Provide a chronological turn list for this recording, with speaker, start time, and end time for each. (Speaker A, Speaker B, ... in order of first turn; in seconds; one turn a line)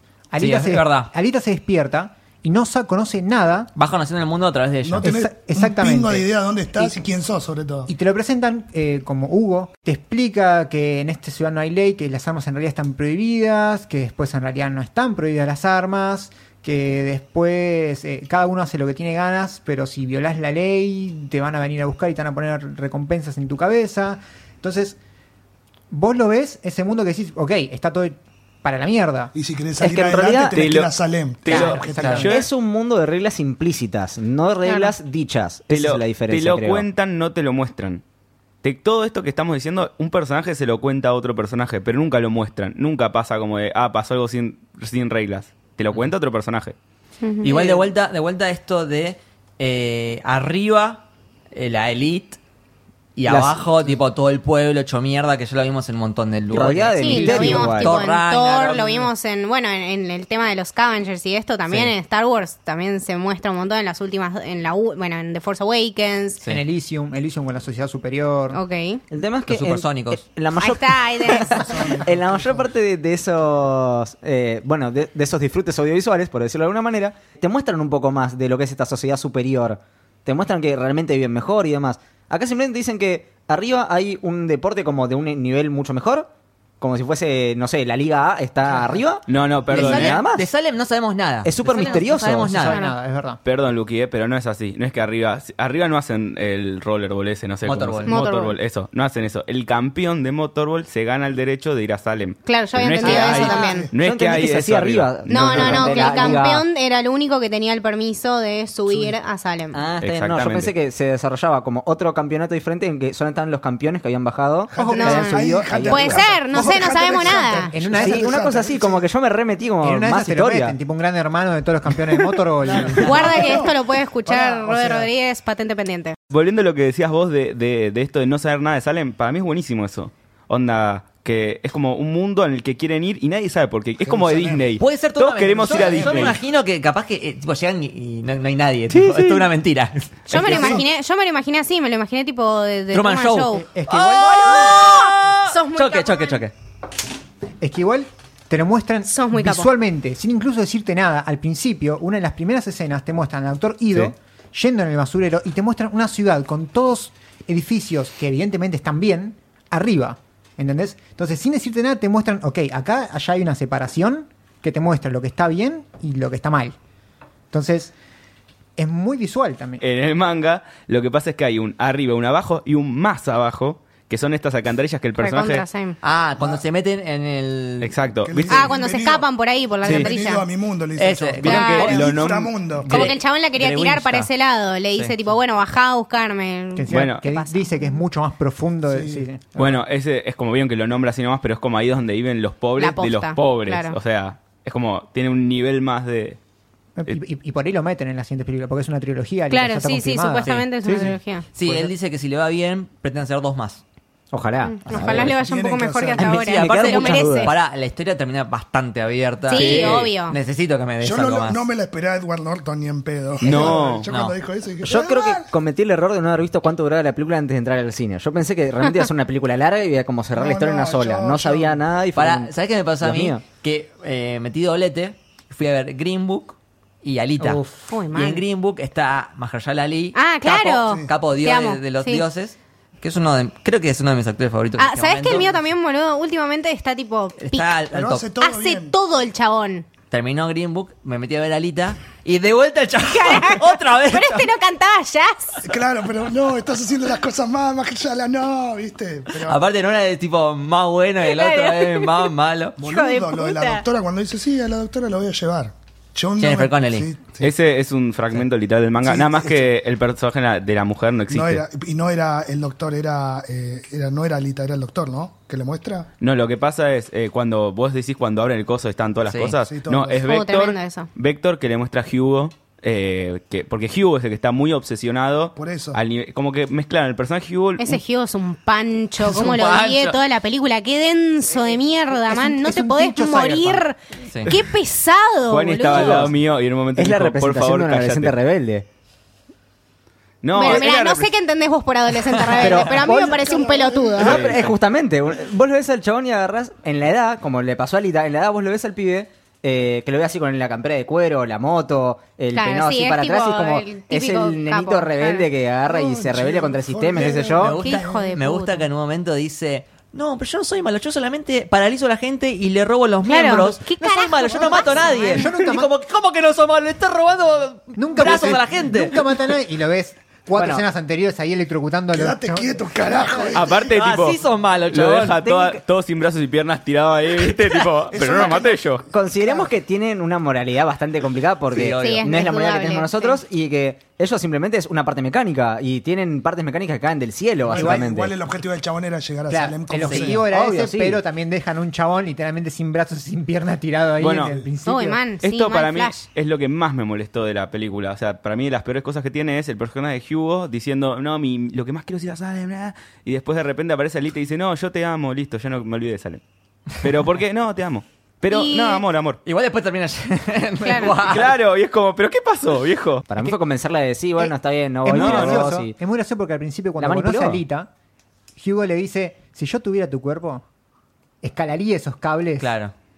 Speaker A: 0.3-3.7
Speaker B: 0.4-1.1
Speaker B: 3.8-5.1
Speaker C: 4.8-7.9
Speaker A: 5.0-7.0
Speaker A: 7.9-25.0
Speaker A: 25.9-29.3
Speaker C: 29.3-32.3
Speaker D: 29.8-30.7
Speaker E: 30.5-32.5
Speaker A: 31.5-32.2
Speaker D: 32.2-36.8
Speaker F: 34.6-34.9
Speaker E: 35.7-38.0
Speaker E: 38.6-46.7
Speaker F: 47.2-47.7
Speaker B: 47.4-52.4
Speaker D: 47.5-47.8
Speaker B: 53.1-59.1
Speaker D: 53.3-53.6
Speaker D: 56.5-58.0
Speaker F: 57.0-66.4
Speaker A: 66.5-68.6
Speaker F: 68.5-69.0
Speaker D: 69.1-86.3
Speaker B: 69.5-70.2
Speaker F: 70.6-71.9
Speaker C: 71.8-72.0
Speaker D: 86.8-90.5
Speaker E: 89.3-90.2
Speaker B: 89.7-92.8
Speaker D: 91.4-92.7
Speaker A: 91.7-93.4
Speaker E: 93.4-106.2
Speaker B: 97.6-98.1
Speaker F: 98.0-98.6
Speaker F: 102.4-103.9
Speaker D: 103.0-106.7
Speaker C: 103.2-103.9
Speaker F: 105.3-109.8
Speaker D: 109.7-116.8
Speaker E: 110.0-110.7
Speaker C: 114.7-119.0
Speaker A: 114.8-115.1
Speaker F: 114.9-117.7
Speaker A: 117.6-118.7
Speaker D: 118.0-120.8
Speaker A: 119.8-123.1
Speaker C: 122.2-125.1
Speaker F: 123.0-126.2
Speaker E: 126.3-136.4
Speaker C: 134.0-134.7
Speaker B: 134.8-140.8
Speaker D: 139.0-139.5
Speaker F: 140.3-146.4
Speaker C: 140.3-140.8
Speaker B: 142.9-146.5
Speaker A: 143.6-144.7
Speaker A: 147.6-166.7
Speaker F: 149.1-149.7
Speaker A: 167.5-167.9
Speaker A: 168.8-169.8
Speaker E: 169.8-175.6
Speaker F: 175.2-176.0
Speaker B: 176.0-177.9
Speaker E: 177.8-178.7
Speaker C: 178.2-179.2
Speaker F: 178.5-180.5
Speaker C: 179.8-182.9
Speaker E: 179.8-180.1
Speaker B: 181.0-182.2
Speaker E: 181.4-182.6
Speaker F: 181.4-181.9
Speaker A: 182.8-183.1
Speaker B: 182.9-184.3
Speaker F: 182.9-187.9
Speaker A: 186.7-189.8
Speaker E: 186.9-187.2
Speaker C: 188.9-189.2
Speaker E: 189.6-196.4
Speaker F: 192.8-194.0
Speaker A: 196.9-201.1
Speaker F: 199.5-201.5
Speaker B: 201.5-203.8
Speaker D: 204.3-205.3
Speaker F: 204.7-207.5
Speaker B: 204.8-205.3
Speaker C: 205.0-206.3
Speaker B: 206.1-211.7
Speaker D: 206.6-207.5
Speaker F: 209.5-210.4
Speaker C: 211.0-215.5
Speaker E: 213.4-214.1
Speaker B: 213.5-214.3
Speaker D: 214.8-223.4
Speaker C: 220.3-221.8
Speaker B: 222.2-235.6
Speaker F: 227.9-228.4
Speaker F: 230.1-232.2
Speaker F: 234.8-239.9
Speaker B: 237.4-238.3
Speaker C: 237.9-238.9
Speaker B: 240.1-244.5
Speaker F: 243.0-245.6
Speaker C: 245.6-249.6
Speaker B: 249.3-252.8
Speaker F: 251.2-252.3
Speaker C: 252.8-257.5
Speaker F: 252.8-253.8
Speaker B: 256.4-257.1
Speaker E: 257.4-261.6
Speaker C: 259.0-259.7
Speaker C: 261.3-266.1
Speaker E: 266.2-278.0
Speaker B: 269.2-269.5
Speaker C: 269.6-270.2
Speaker F: 270.2-271.1
Speaker C: 275.5-276.0
Speaker F: 277.8-286.3
Speaker B: 279.2-280.2
Speaker A: 282.3-283.6
Speaker E: 285.5-288.3
Speaker D: 286.9-288.9
Speaker E: 290.4-291.3
Speaker F: 290.5-294.3
Speaker B: 292.2-292.9
Speaker D: 292.6-293.4
Speaker C: 293.0-294.5
Speaker D: 294.2-307.8
Speaker E: 294.2-294.6
Speaker F: 302.5-305.5
Speaker C: 305.9-308.3
Speaker B: 307.4-319.2
Speaker F: 307.7-308.9
Speaker F: 313.2-315.6
Speaker A: 315.2-315.9
Speaker A: 317.9-323.5
Speaker D: 320.5-320.8
Speaker C: 322.1-323.9
Speaker E: 323.5-329.1
Speaker B: 323.9-325.4
Speaker D: 325.4-325.8
Speaker C: 328.1-328.8
Speaker D: 329.1-338.3
Speaker B: 331.7-332.4
Speaker F: 332.0-333.4
Speaker C: 337.6-340.5
Speaker A: 337.7-338.0
Speaker A: 339.5-345.2
Speaker D: 340.5-341.2
Speaker E: 344.2-344.6
Speaker F: 344.8-346.2
Speaker E: 345.4-356.4
Speaker E: 356.9-359.4
Speaker F: 358.5-359.0
Speaker B: 359.4-361.6
Speaker F: 360.8-361.1
Speaker E: 361.1-363.2
Speaker D: 363.3-365.9
Speaker A: 364.4-367.9
Speaker E: 365.1-365.6
Speaker D: 367.0-367.6
Speaker A: 368.6-370.6
Speaker A: 371.4-372.7
Speaker B: 372.6-372.9